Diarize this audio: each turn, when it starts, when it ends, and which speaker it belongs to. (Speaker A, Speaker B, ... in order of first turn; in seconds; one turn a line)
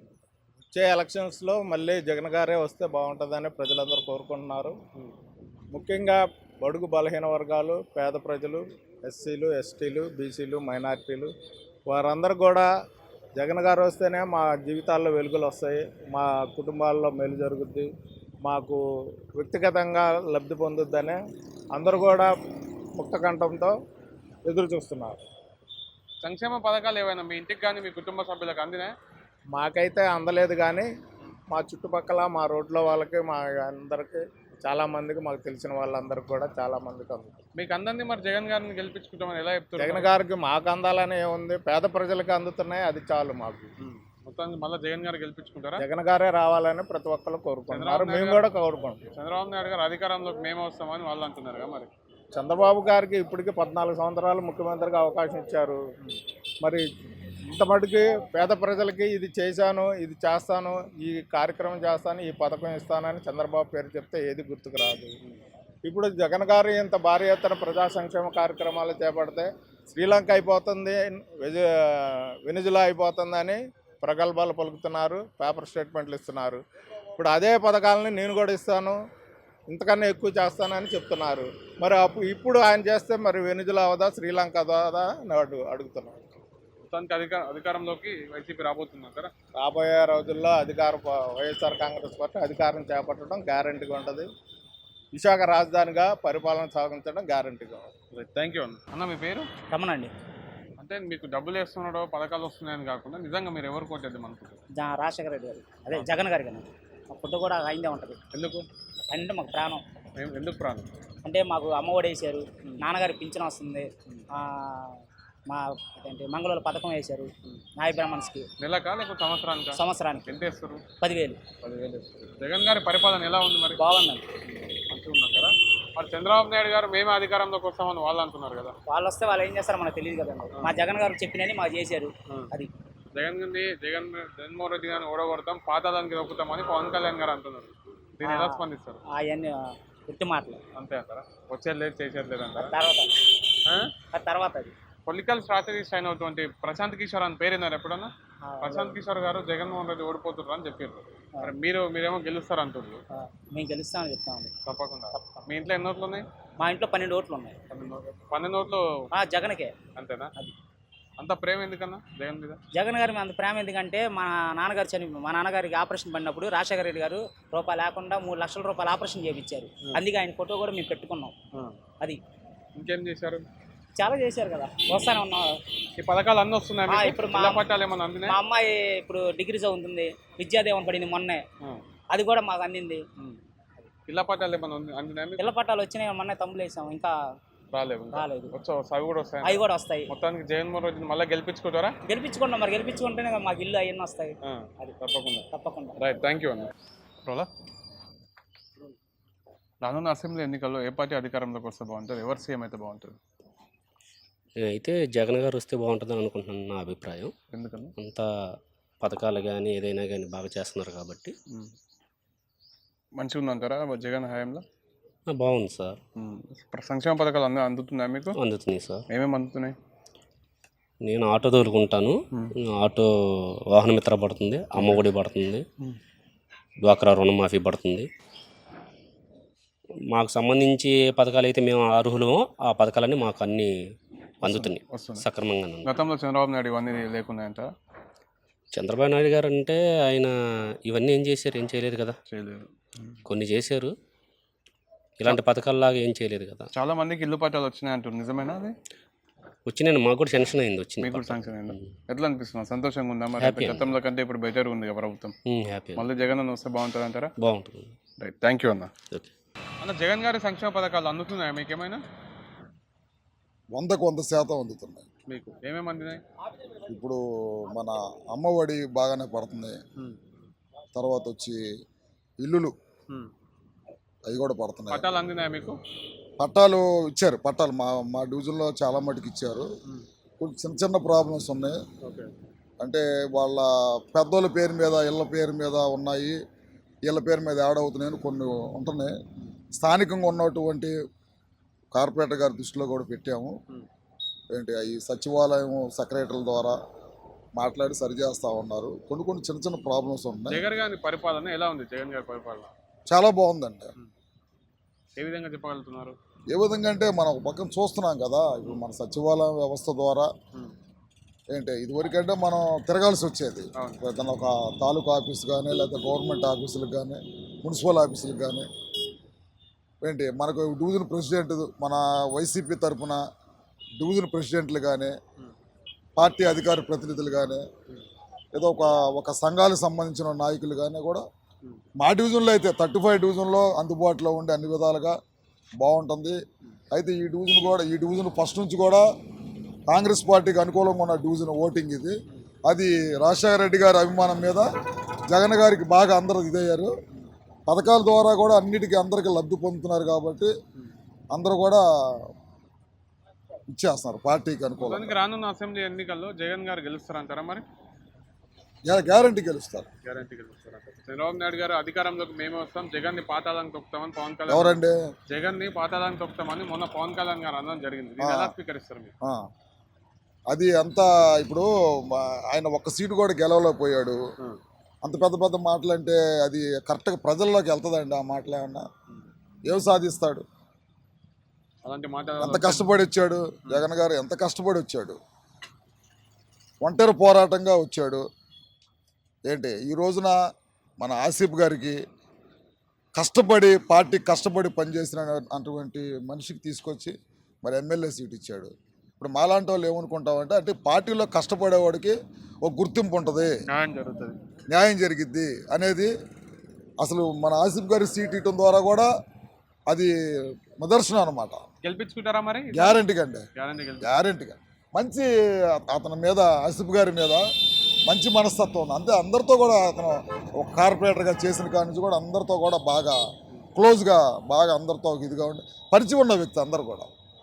Speaker A: 0.7-4.7
Speaker A: 5.7-11.3
Speaker A: 11.9-12.7
Speaker A: 13.3-17.9
Speaker A: 18.4-18.8
Speaker A: 19.4-21.2
Speaker A: 21.8-22.3
Speaker A: 23.0-23.7
Speaker A: 24.4-25.2
Speaker B: 26.2-28.9
Speaker A: 29.5-30.9
Speaker A: 31.5-37.4
Speaker B: 37.5-40.1
Speaker A: 39.8-43.7
Speaker B: 43.8-45.9
Speaker A: 45.8-49.0
Speaker B: 47.7-48.5
Speaker B: 49.1-51.9
Speaker A: 52.3-55.8
Speaker A: 57.5-65.1
Speaker A: 65.8-71.6
Speaker A: 72.5-76.6
Speaker A: 77.2-78.9
Speaker A: 79.7-86.2
Speaker B: 86.9-89.3
Speaker A: 89.6-94.3
Speaker A: 95.1-97.9
Speaker B: 98.1-99.5
Speaker C: 99.7-100.1
Speaker B: 100.8-104.6
Speaker C: 104.7-108.2
Speaker B: 108.3-108.7
Speaker C: 109.1-109.8
Speaker B: 110.2-110.9
Speaker C: 111.2-118.5
Speaker B: 118.6-120.8
Speaker C: 119.7-120.4
Speaker C: 121.0-121.4
Speaker B: 121.6-123.8
Speaker C: 123.8-124.2
Speaker B: 124.4-128.8
Speaker C: 128.9-132.7
Speaker B: 133.1-139.0
Speaker C: 138.2-140.6
Speaker B: 140.7-142.7
Speaker C: 142.6-143.1
Speaker B: 143.6-143.9
Speaker C: 144.1-144.7
Speaker B: 145.0-153.0
Speaker C: 148.4-149.0
Speaker C: 153.2-154.5
Speaker B: 154.6-156.2
Speaker C: 156.6-157.5
Speaker B: 157.7-158.8
Speaker C: 159.1-159.8
Speaker B: 159.9-160.3
Speaker B: 161.2-162.6
Speaker C: 162.7-171.3
Speaker B: 172.7-173.4
Speaker C: 173.9-175.5
Speaker B: 176.0-178.4
Speaker C: 176.9-177.7
Speaker C: 178.2-181.4
Speaker C: 182.1-183.0
Speaker B: 184.1-185.4
Speaker C: 185.4-187.2
Speaker B: 187.7-191.9
Speaker C: 188.1-188.5
Speaker C: 189.4-190.1
Speaker C: 192.1-194.9
Speaker B: 194.4-195.5
Speaker C: 195.5-196.0
Speaker B: 196.0-196.7
Speaker B: 199.8-203.2
Speaker D: 204.6-207.3
Speaker B: 207.5-207.9
Speaker D: 208.0-208.2
Speaker D: 209.0-211.3
Speaker B: 213.1-214.6
Speaker D: 215.3-216.0
Speaker B: 216.2-218.3
Speaker D: 218.4-219.0
Speaker B: 219.1-219.8
Speaker D: 221.0-222.2
Speaker D: 222.7-223.1
Speaker D: 223.7-225.6
Speaker B: 224.8-225.1
Speaker D: 226.8-228.1
Speaker D: 230.1-233.7
Speaker B: 234.4-235.2
Speaker D: 234.4-236.0
Speaker B: 235.8-237.7
Speaker D: 238.7-240.3
Speaker D: 240.8-242.2
Speaker B: 242.3-243.2
Speaker D: 243.2-243.9
Speaker D: 245.2-246.7
Speaker B: 246.7-248.7
Speaker D: 249.7-251.8
Speaker B: 251.0-255.3
Speaker D: 253.4-253.9
Speaker D: 255.5-256.1
Speaker B: 256.0-257.3
Speaker D: 257.4-257.9
Speaker B: 258.2-258.9
Speaker B: 259.8-262.0
Speaker E: 263.7-265.0
Speaker B: 265.3-266.2
Speaker E: 266.9-267.2
Speaker E: 267.7-269.8
Speaker E: 270.9-271.6
Speaker E: 272.4-272.7
Speaker E: 274.3-275.0
Speaker B: 274.9-275.8
Speaker E: 276.4-279.7
Speaker E: 280.4-281.8
Speaker B: 282.0-282.3
Speaker E: 282.8-286.3
Speaker E: 287.1-289.1
Speaker E: 289.8-290.9
Speaker E: 291.9-293.5
Speaker E: 294.5-296.8
Speaker E: 297.6-300.6
Speaker B: 300.5-302.7
Speaker E: 303.1-303.9
Speaker B: 305.2-306.1
Speaker E: 306.5-310.3
Speaker E: 311.5-318.6
Speaker E: 320.0-323.2
Speaker E: 324.0-325.1
Speaker E: 326.1-327.6
Speaker E: 328.5-331.2
Speaker E: 332.0-335.1
Speaker E: 335.8-336.4
Speaker E: 336.9-339.0
Speaker E: 339.9-342.1
Speaker E: 342.7-344.6
Speaker E: 345.3-346.9
Speaker E: 347.7-350.5
Speaker E: 351.3-351.8
Speaker E: 353.7-355.1
Speaker B: 354.8-357.6
Speaker E: 358.9-359.9
Speaker B: 360.0-364.8
Speaker E: 364.5-364.9
Speaker B: 365.3-369.1
Speaker E: 368.2-368.5
Speaker E: 370.5-374.2
Speaker E: 375.0-378.9
Speaker E: 379.7-380.4
Speaker B: 381.8-383.0
Speaker E: 382.4-385.2
Speaker E: 386.8-388.2
Speaker E: 389.5-390.4
Speaker E: 391.0-392.0
Speaker E: 393.1-403.5
Speaker B: 403.7-404.4
Speaker E: 404.7-406.1
Speaker E: 407.0-409.1
Speaker E: 410.8-411.6
Speaker B: 411.8-413.0
Speaker E: 412.7-413.4
Speaker B: 413.6-414.1
Speaker E: 414.0-417.4
Speaker E: 418.1-423.2
Speaker E: 423.8-427.1